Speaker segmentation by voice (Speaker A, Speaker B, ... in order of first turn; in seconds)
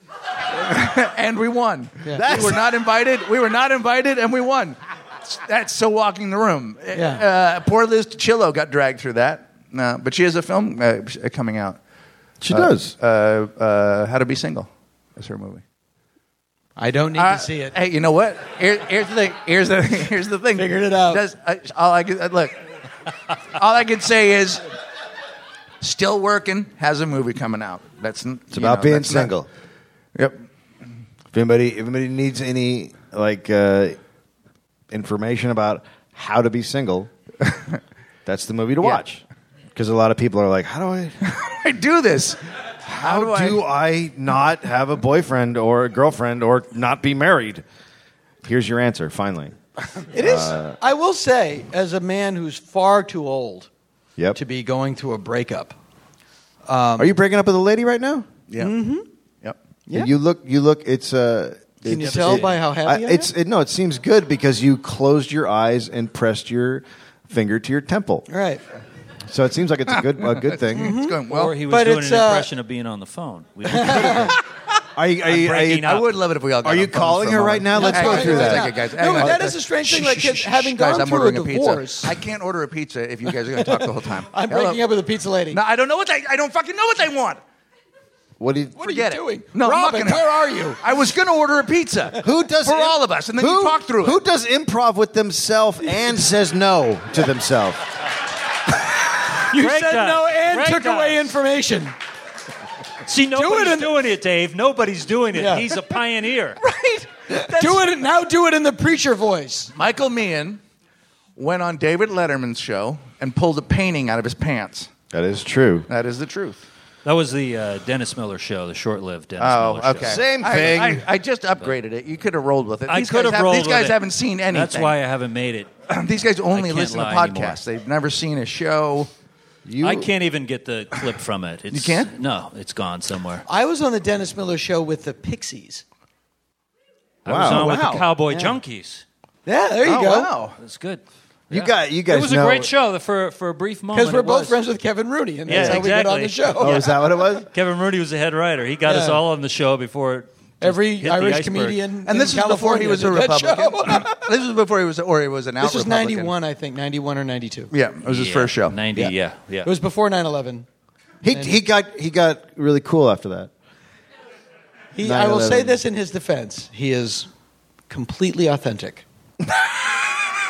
Speaker A: 0.5-11.8, 12.5-15.6, 17.2-22.6, 23.5-24.6, 25.8-29.3, 41.2-43.6, 58.5-58.7, 70.4-71.6, 75.4-84.8, 85.5-87.4, 88.8-94.2, 106.6-107.8, 109.8-110.6, 111.4-114.9, 115.9-116.6, 119.4-125.0, 125.9-129.1, 131.7-132.1, 137.4-138.1, 139.8-140.6, 152.1-156.3, 157.7-158.8
Speaker B: 2.2-2.6, 12.4-12.9, 28.5-29.5, 31.3-34.0, 34.9-37.1, 38.3-39.2, 39.8-41.2, 42.9-47.6, 48.4-49.5, 50.2-50.8, 57.0-58.3, 59.9-68.3, 69.3-71.0, 75.0-76.0, 76.6-79.5, 88.4-88.8, 92.2-97.8, 115.1-115.9, 120.0-121.1, 129.7-130.1, 137.3-137.9, 141.5-142.7, 145.5-145.9, 146.6-147.5, 161.2-163.5, 165.0-165.8
Speaker C: 6.9-7.2, 16.8-17.8, 20.6-21.2, 50.1-53.7, 54.4-55.8, 56.7-57.1, 58.6-59.1, 61.9-63.3, 68.3-68.6, 70.7-72.5, 73.7-74.3, 77.7-82.1, 83.6-85.6, 88.8-90.8, 99.3-101.9, 103.3-104.0, 105.3-105.7, 107.3-109.7, 133.5-135.8, 139.5-140.3, 143.9-146.8, 148.9-149.2, 150.6-154.2, 155.6-157.7, 158.9-160.7, 164.9-167.3, 167.9-169.1
Speaker D: 71.3-74.4, 75.3-76.0, 99.5-101.3, 103.0-106.6, 117.0-120.2, 122.9-124.0, 124.5-125.7, 126.5-127.6, 129.8-133.4, 137.2-139.0, 140.6-144.6, 145.5-151.8, 158.1-159.7